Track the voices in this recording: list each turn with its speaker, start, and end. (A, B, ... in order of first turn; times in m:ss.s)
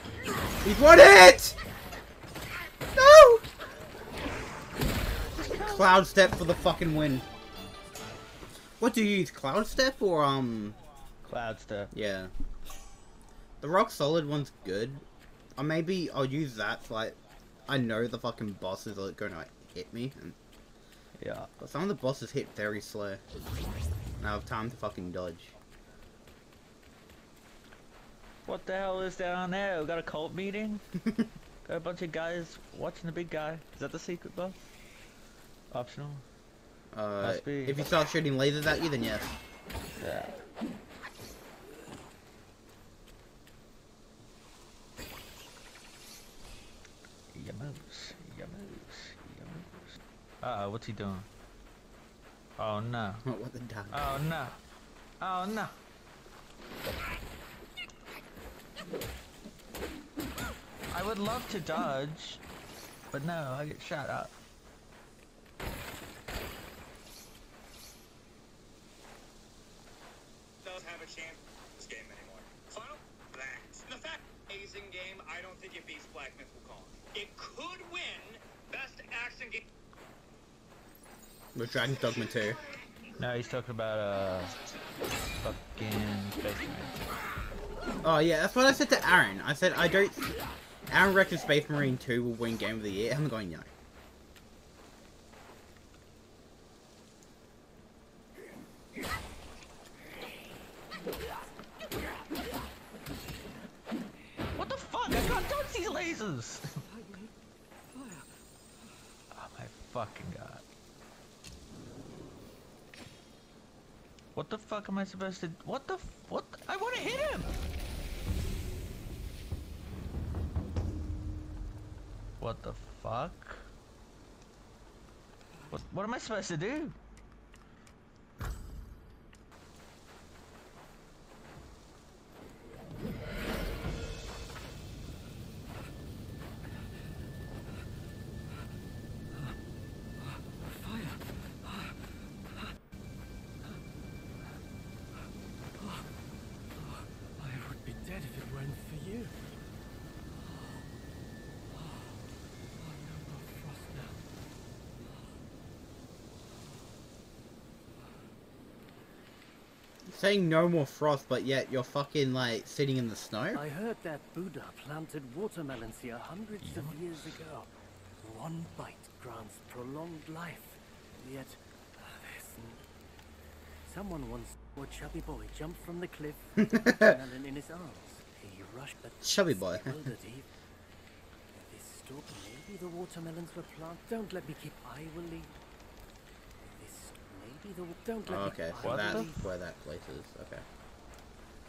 0:00.6-0:01.6 A
0:03.0-0:03.4 A
0:05.3-0:06.0 B
0:05.5-0:07.2 A
0:08.8-0:10.8 A
0:11.2-0:11.9 B
0:11.9-0:12.3 A
0:13.6-0:15.0 A
0:15.6-0:20.4 A
0:21.2-0:21.5 B
0:21.6-0:23.2 A
0:24.2-0:25.5 A
0:28.4-0:31.0 B
0:31.6-0:34.6 B
0:35.7-0:36.2 B
0:36.9-0:39.3 A
0:37.2-0:37.8 B
0:40.0-0:40.4 B
0:47.3-0:51.3 B
0:52.6-0:53.2 B
0:53.2-0:54.0 A
0:53.9-0:54.6 B
0:55.2-0:55.7 B
1:00.9-1:02.4 B
1:03.1-1:04.3 B
1:10.6-1:19.7 C
1:21.5-1:22.6 A
1:23.2-1:24.5 B
1:25.4-1:26.9 B
1:28.0-1:30.3 A
1:30.9-1:33.7 A
1:44.5-1:46.8 B
1:46.8-1:47.3 D
1:47.9-1:48.2 D
1:49.3-1:50.6 B
1:54.3-1:57.5 B
2:02.4-2:03.6 B
2:05.7-2:07.0 B
2:20.2-2:21.9 D
2:25.8-2:26.0 D
2:26.8-2:29.4 D
2:32.8-2:34.2 D
2:40.0-2:43.6 A
2:43.5-2:47.7 D
2:46.6-2:47.0 B
2:48.2-2:52.8 D
2:53.8-3:00.5 D
2:56.6-2:57.2 A
2:59.2-3:00.0 A
3:01.5-3:05.5 D
3:06.6-3:09.4 D
3:08.2-3:10.6 A
3:08.8-3:09.3 B